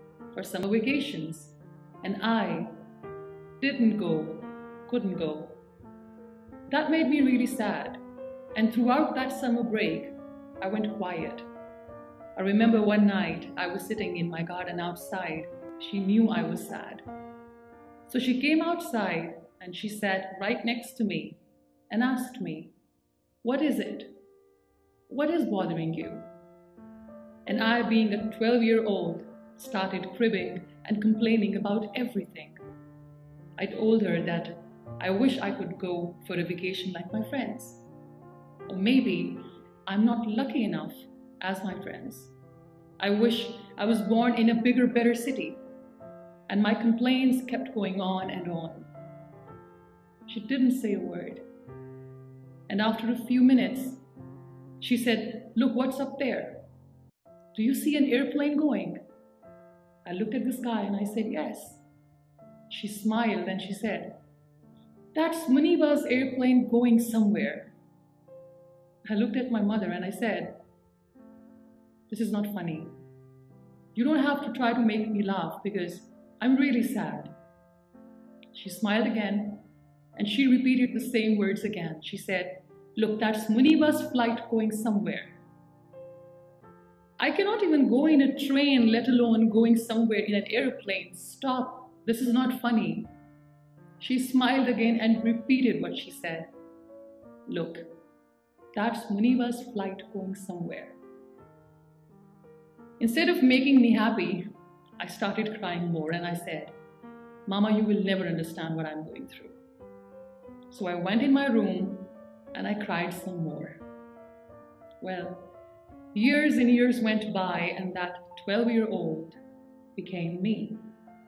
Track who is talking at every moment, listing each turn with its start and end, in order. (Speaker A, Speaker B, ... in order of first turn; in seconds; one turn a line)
Speaker A: 0.3-2.7
Speaker A: 3.6-5.6
Speaker A: 6.7-8.0
Speaker A: 8.5-11.5
Speaker A: 12.3-17.0
Speaker A: 18.1-22.7
Speaker A: 23.4-24.2
Speaker A: 25.1-26.3
Speaker A: 27.4-32.6
Speaker A: 33.6-37.9
Speaker A: 38.7-42.3
Speaker A: 43.0-45.6
Speaker A: 46.5-48.9
Speaker A: 50.3-51.4
Speaker A: 52.7-54.0
Speaker A: 54.8-56.6
Speaker A: 57.5-59.0
Speaker A: 60.0-61.8
Speaker A: 62.7-64.2
Speaker A: 65.1-67.7
Speaker A: 69.0-70.6
Speaker A: 72.1-73.0
Speaker A: 73.9-77.3
Speaker A: 78.5-85.4
Speaker A: 87.2-93.1
Speaker A: 94.0-96.5
Speaker A: 97.5-98.0
Speaker A: 98.7-101.0
Speaker A: 103.0-106.7
Speaker A: 107.5-109.6
Speaker A: 110.7-113.8
Speaker A: 115.0-115.5
Speaker A: 116.1-119.4
Speaker A: 120.0-120.8